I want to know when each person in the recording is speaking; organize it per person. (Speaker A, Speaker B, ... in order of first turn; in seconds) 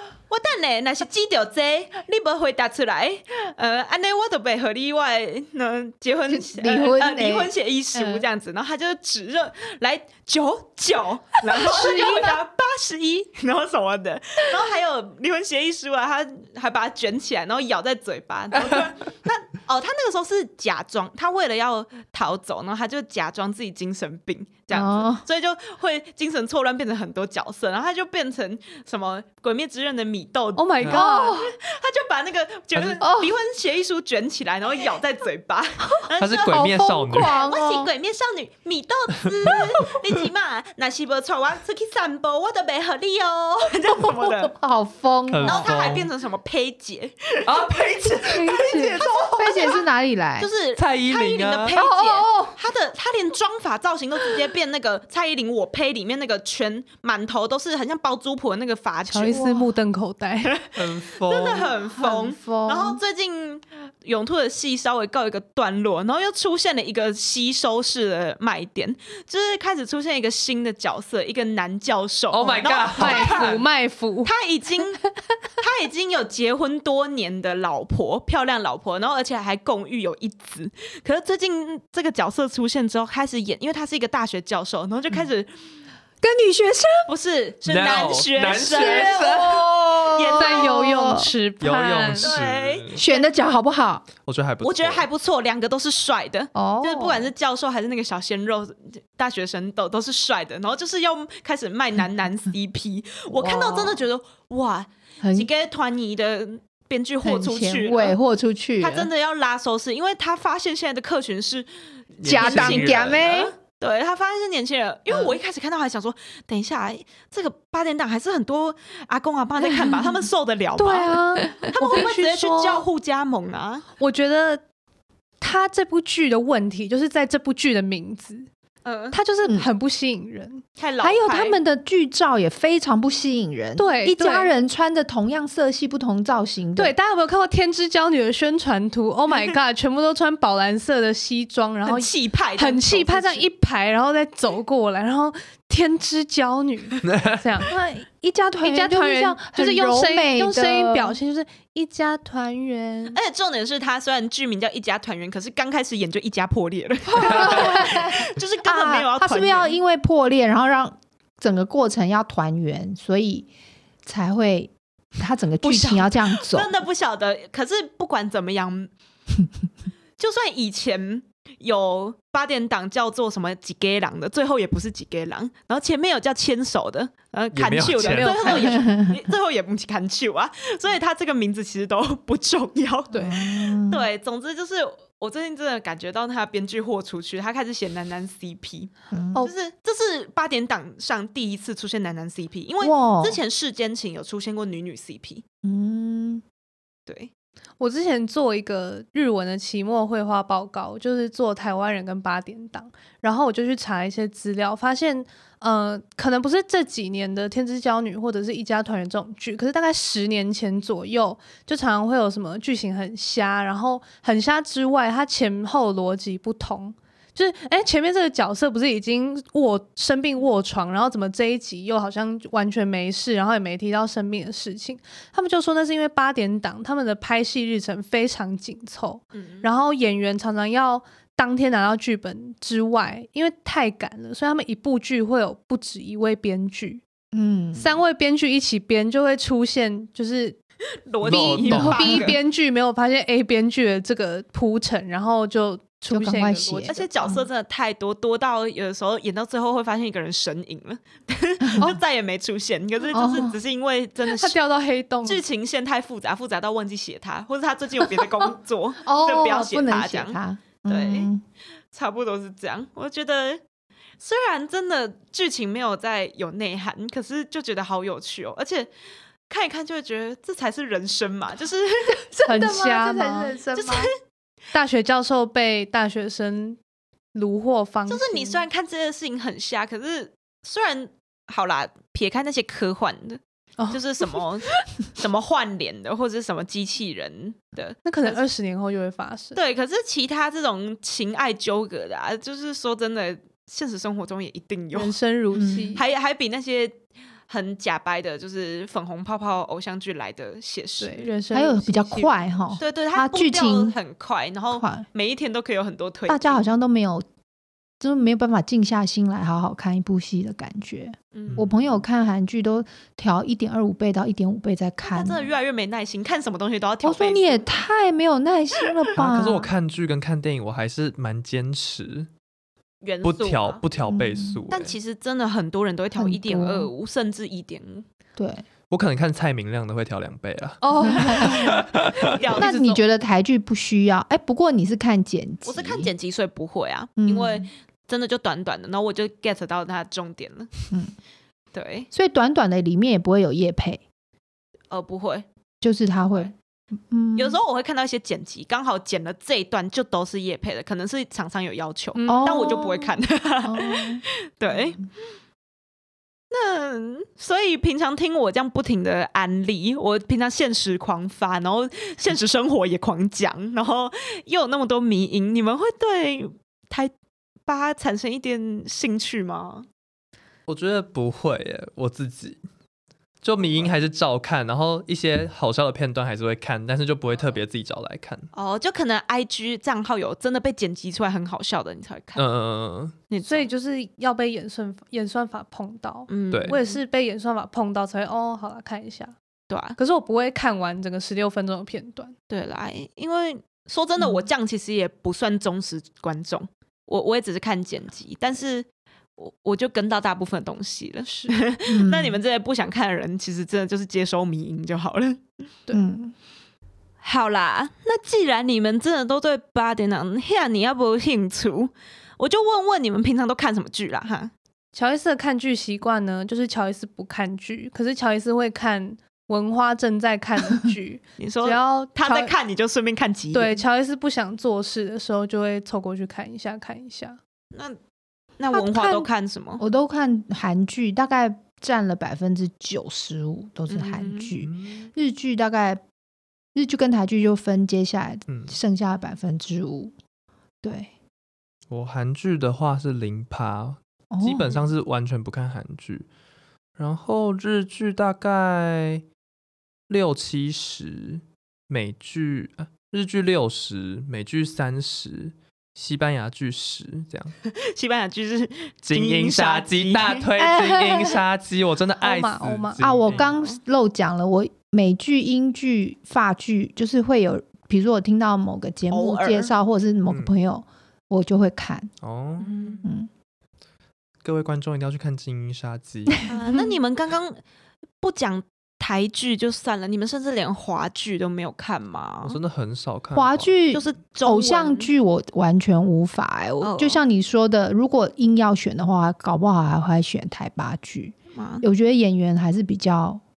Speaker A: 0.3-36.7, 37.4-44.5, 45.4-47.7, 48.5-49.8, 50.4-59.5, 60.4-73.5, 74.2-75.0, 75.6-85.5, 87.1-89.5, 90.0-90.8, 92.2-93.2, 94.6-108.2, 108.8-111.7, 112.2-123.8, 128.8-129.2, 130.8-131.6, 141.8-143.5, 153.1-159.8, 165.6-168.9, 170.2-195.4, 229.3-229.7, 241.1-242.4, 246.9-254.6, 255.2-260.4, 260.9-261.3, 261.9-263.6, 264.2-268.9, 269.5-272.2, 273.8-274.1, 278.1-283.4, 283.9-288.4, 289.6-295.1, 295.9-301.3, 302.8-306.7, 311.3-311.6, 315.0-317.6, 323.0-323.8, 324.7-328.1, 332.2-333.0, 335.6-340.7, 341.7-342.1, 344.9-345.5, 347.4-355.1, 356.5-367.1, 367.7-369.9, 378.5-382.4, 383.3-383.7, 386.3-387.0, 389.7-390.0, 392.5-405.4, 407.2-414.5, 421.4-423.8, 428.6-429.8, 433.9-434.5, 457.6-460.4, 463.3-463.8, 469.1-469.7, 472.6-473.0, 476.5-477.6, 478.2-482.6, 483.9-485.1, 486.8-487.2, 491.6-491.9
Speaker B: 6.3-8.2, 11.7-12.3, 24.7-25.2, 31.0-31.4, 33.0-33.3, 35.9-37.9, 44.2-45.7, 49.3-50.5, 51.7-52.5, 62.0-63.0, 86.2-87.1, 88.7-91.3, 93.0-94.1, 96.5-97.3, 103.3-104.0, 105.2-105.5, 107.2-109.1, 112.2-113.5, 131.0-136.9, 147.7-151.2, 157.2-163.5, 164.0-166.7, 178.5-179.1, 183.2-184.1, 189.1-189.5, 192.8-193.4, 195.6-196.4, 237.3-238.0, 241.8-242.2, 246.1-247.4, 253.1-253.6, 259.0-261.4, 272.3-274.1, 295.5-295.9, 301.5-304.0, 304.7-305.1, 306.3-307.3, 308.0-315.4, 317.0-319.7, 324.1-324.6, 326.2-326.9, 328.4-328.6, 331.0-331.9, 332.5-336.1, 337.2-337.7, 342.1-344.0, 345.8-346.5, 347.1-347.6, 352.3-353.1, 353.6-354.2, 401.9-402.4, 405.9-406.3, 428.7-436.0, 436.8-440.1, 440.8-441.1, 444.3-444.8, 460.6-461.4, 463.0-472.1, 473.0-473.3, 483.3-493.4
Speaker C: 12.0-12.2, 30.6-31.4, 48.5-49.0, 59.1-60.5, 72.9-74.3, 90.4-92.3, 120.8-122.9, 124.0-124.6, 125.4-128.5, 129.1-130.6, 133.8-134.5, 136.8-147.8, 148.6-153.2, 178.0-178.8, 183.1-183.4, 197.8-237.0, 237.8-240.6, 241.3-247.1, 254.2-255.4, 272.5-273.6, 274.7-276.8, 277.3-278.6, 283.8-284.4, 288.1-289.6, 294.9-296.0, 301.0-302.8, 330.8-332.9, 352.1-352.8, 383.4-389.4, 390.0-392.3, 401.3-401.6, 414.9-422.5, 423.5-427.4, 462.2-463.0
Speaker D: 32.8-33.0, 36.2-37.4, 45.3-46.1, 47.5-49.3, 50.8-51.8, 60.8-61.7, 72.3-73.7, 87.7-89.7, 91.6-93.0, 94.2-95.1, 112.2-113.2, 147.1-147.4, 177.5-178.5, 241.2-242.3, 319.2-322.3, 323.2-324.9, 328.9-332.2, 370.7-372.6, 373.4-378.5, 382.4-383.1, 386.5-386.8, 434.6-435.1, 438.5-438.8, 441.9-446.3, 447.0-449.2, 450.1-457.6, 459.0-463.5, 472.2-472.7, 474.4-476.4, 482.4-483.7